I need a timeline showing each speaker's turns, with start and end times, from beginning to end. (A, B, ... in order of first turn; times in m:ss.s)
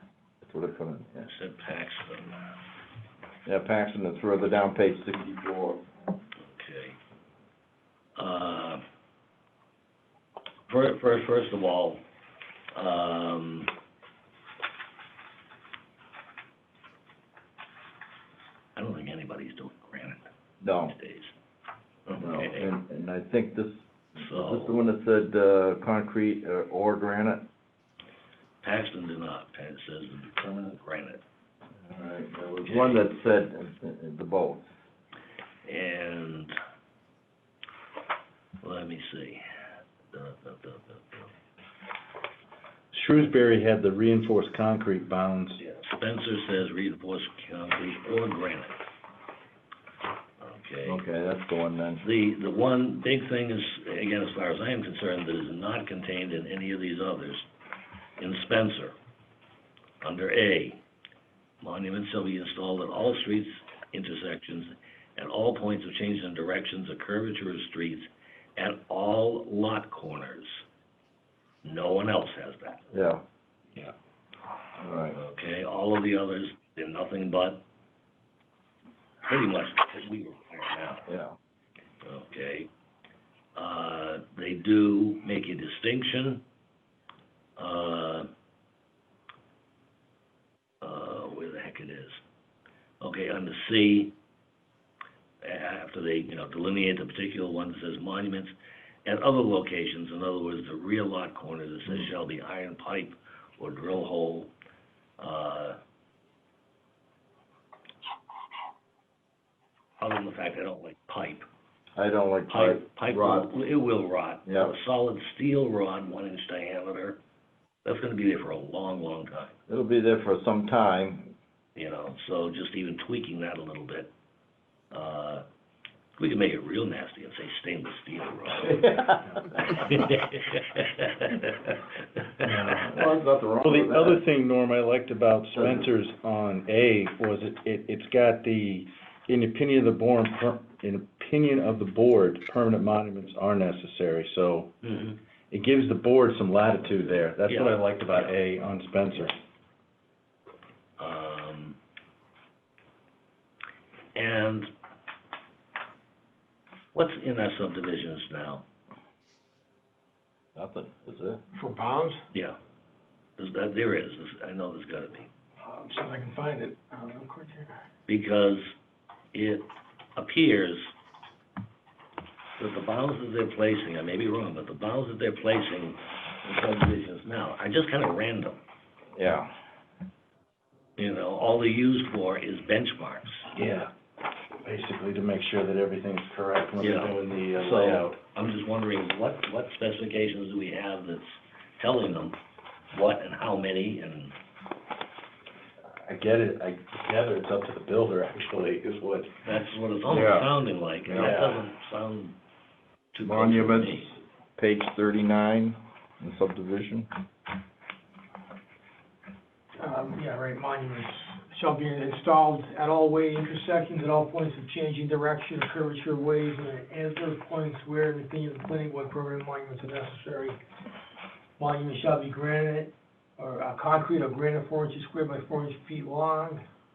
0:00.4-0:01.3 A
0:01.2-0:02.4 B
0:03.4-0:05.8 A
0:06.4-0:07.0 B
0:08.2-0:08.8 B
0:10.7-0:12.0 B
0:12.7-0:13.7 B
0:18.8-0:20.2 B
0:20.6-0:20.9 A
0:20.9-0:21.3 B
0:22.1-0:22.7 B
0:22.2-0:27.5 A
0:24.2-0:24.8 B
0:28.6-0:31.2 B
0:31.8-0:34.7 A
0:32.6-0:33.0 B
0:35.6-0:36.5 B
0:38.6-0:39.4 B
0:40.1-0:41.3 B
0:42.9-0:45.6 C
0:45.6-0:48.8 B
0:50.4-0:51.0 B
0:50.8-0:52.0 A
0:52.0-0:57.5 B
0:58.2-0:59.0 B
1:00.0-1:00.8 B
1:01.6-1:10.6 B
1:11.6-1:12.8 B
1:12.9-1:13.2 A
1:14.8-1:15.2 A
1:15.1-1:17.6 B
1:19.2-1:21.0 B
1:21.1-1:21.3 A
1:22.0-1:22.7 B
1:23.5-1:26.4 B
1:27.6-1:28.3 B
1:30.8-1:32.2 B
1:33.0-1:34.1 B
1:35.4-1:38.5 B
1:39.0-1:44.5 B
1:45.2-1:45.8 B
1:50.0-1:51.5 B
1:52.0-1:53.5 A
1:52.5-1:57.2 B
1:54.4-1:54.7 A
1:57.8-1:59.6 B
1:59.7-2:01.3 A
2:01.8-2:04.1 B
2:04.9-2:05.4 B
2:06.2-2:11.8 B
2:08.6-2:09.4 A
2:12.4-2:13.1 C
2:12.8-2:14.2 A
2:13.6-2:24.7 C
2:15.6-2:15.8 A
2:24.8-2:25.2 B
2:25.5-2:29.4 C
2:27.4-2:28.3 B
2:31.0-2:31.8 B
2:34.1-2:34.7 B
2:36.9-2:38.6 B
2:40.6-2:41.4 A
2:41.5-2:42.2 D
2:43.4-2:45.3 B
2:45.6-2:47.8 D
2:48.1-2:48.7 B
2:49.3-2:50.9 B
2:52.6-2:58.6 B
2:59.1-2:59.5 A
3:01.0-3:03.5 B
3:03.5-3:03.9 C
3:04.6-3:08.2 C
3:06.8-3:12.4 B
3:12.9-3:14.4 B
3:15.9-3:19.3 C
3:19.4-3:22.4 B
3:20.1-3:20.5 A
3:21.1-3:21.3 A
3:21.2-3:21.6 C
3:23.1-3:24.2 B
3:23.2-3:27.1 A
3:29.8-3:40.6 D
3:41.6-3:46.6 D